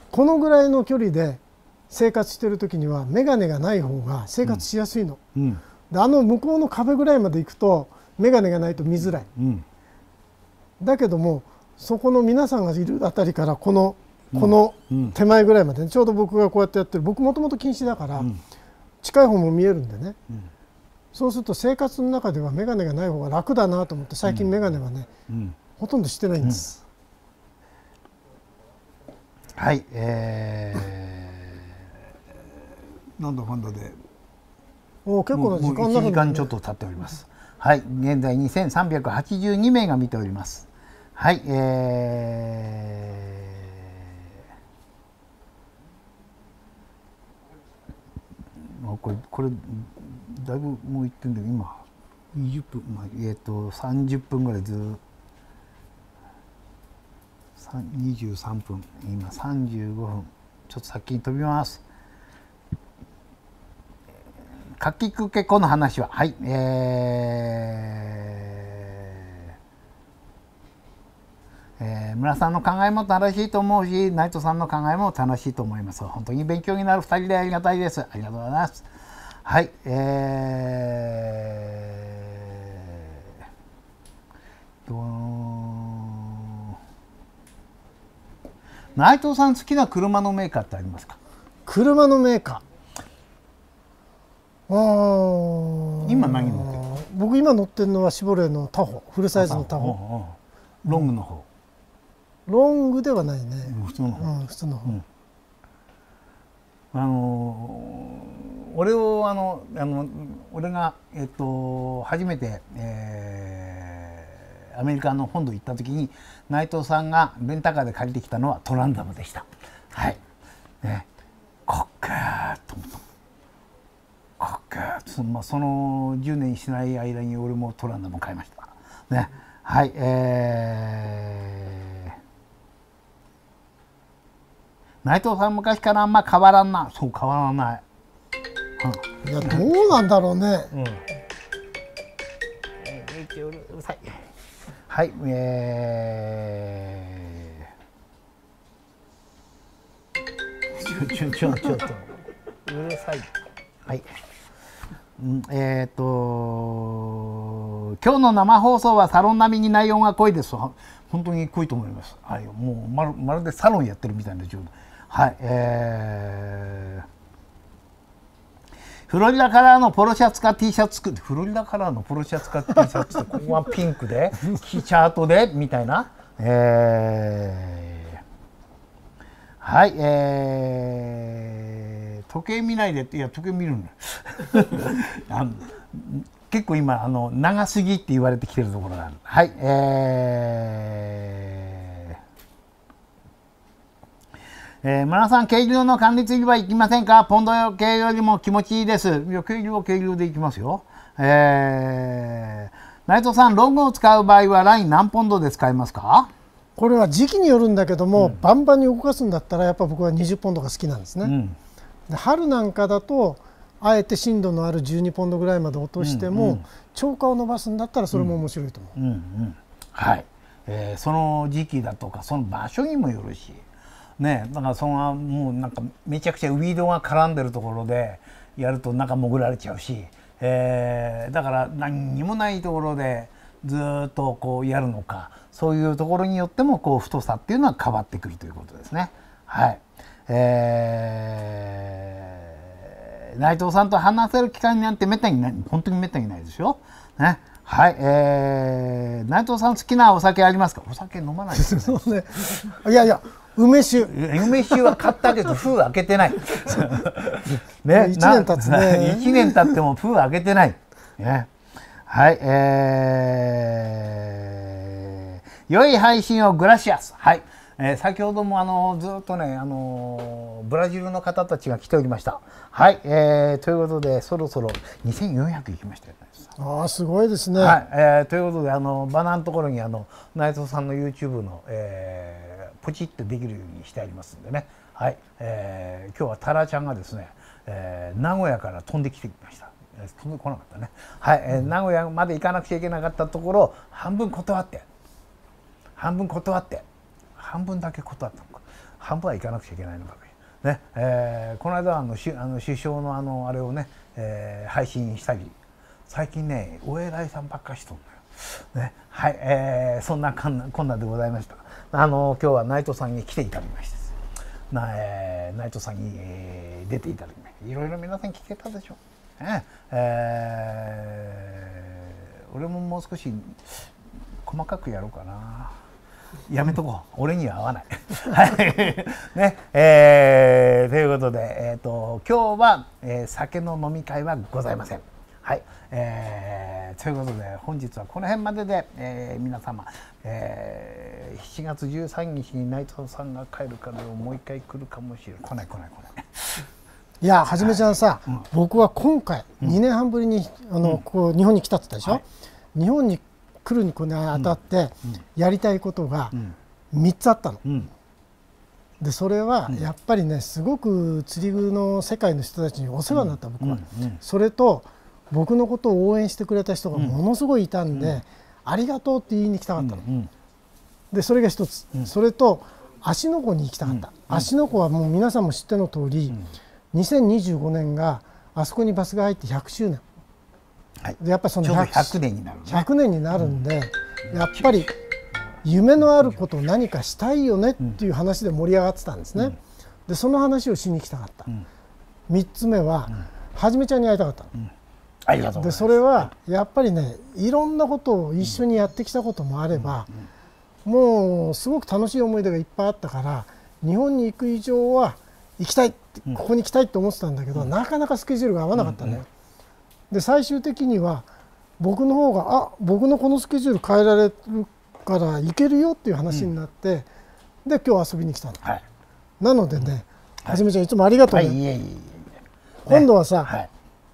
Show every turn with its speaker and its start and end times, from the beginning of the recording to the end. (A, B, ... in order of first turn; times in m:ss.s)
0:00.1-0:05.2 A
0:05.3-0:05.6 B
0:05.9-0:09.3 A
0:09.3-0:09.6 B
0:10.8-0:18.3 A
0:14.3-0:15.1 B
0:19.0-0:20.2 A
0:21.1-0:25.1 A
0:25.3-0:25.6 B
0:25.8-0:26.8 A
0:29.6-0:31.6 B
0:33.2-0:34.0 B
0:35.0-0:36.5 A
0:35.3-0:43.6 B
0:48.6-0:51.8 B
0:52.3-0:55.0 B
0:57.6-1:01.8 B
1:04.8-1:09.2 B
1:11.8-1:18.9 B
1:19.4-1:23.0 B
1:24.8-1:26.7 B
1:29.0-1:31.2 B
1:31.6-1:32.6 A
1:34.7-1:40.0 A
1:36.0-1:36.8 B
1:39.3-1:41.5 B
1:42.5-1:45.0 A
1:43.7-1:44.3 B
1:46.9-2:00.2 B
2:00.8-2:01.1 B
2:01.7-2:03.0 B
2:04.4-2:12.1 B
2:15.0-2:17.8 B
2:18.8-2:20.0 B
2:19.2-2:20.7 A
2:20.7-2:21.0 B
2:22.8-2:24.2 B
2:24.9-2:27.6 B
2:30.7-2:32.1 B
2:32.6-2:33.3 B
2:35.2-2:47.0 B
2:49.1-2:58.2 B
2:59.6-3:12.2 B
3:14.8-3:26.3 B
3:26.8-3:31.3 A
3:31.2-3:31.6 B
3:32.1-3:38.9 A
3:36.0-3:36.6 B
3:39.0-3:43.6 B
3:44.2-4:12.7 B
4:11.5-4:15.0 A
4:14.0-4:21.5 B
4:17.9-4:19.8 A
4:22.1-4:36.5 B
4:36.6-4:37.8 A
4:37.6-4:54.8 B
4:56.0-4:56.8 B
4:57.4-5:05.5 B
5:06.1-5:14.2 B
5:14.7-5:23.9 B
5:24.4-5:25.8 B
5:26.5-5:46.7 B
5:47.2-5:56.4 A
5:47.6-5:48.4 B
5:56.9-5:57.6 A
5:57.6-5:57.9 B
5:59.0-6:10.0 A
6:03.1-6:04.2 B
6:07.9-6:08.2 B
6:09.8-6:10.3 B
6:11.1-6:16.4 A
6:13.8-6:14.5 B
6:16.9-6:20.0 A
6:21.0-6:22.9 B
6:21.2-6:22.2 A
6:22.7-6:24.9 A
6:25.6-6:31.5 A
6:32.3-6:34.5 A
6:35.2-6:36.3 B
6:35.6-6:40.1 A
6:40.8-6:49.3 A
6:48.7-6:49.2 B
6:50.1-6:51.3 A
6:51.8-6:57.1 A
6:57.6-6:58.6 A
6:59.4-7:01.6 A
7:01.3-7:02.3 B
7:02.8-7:03.5 A
7:02.9-7:03.7 B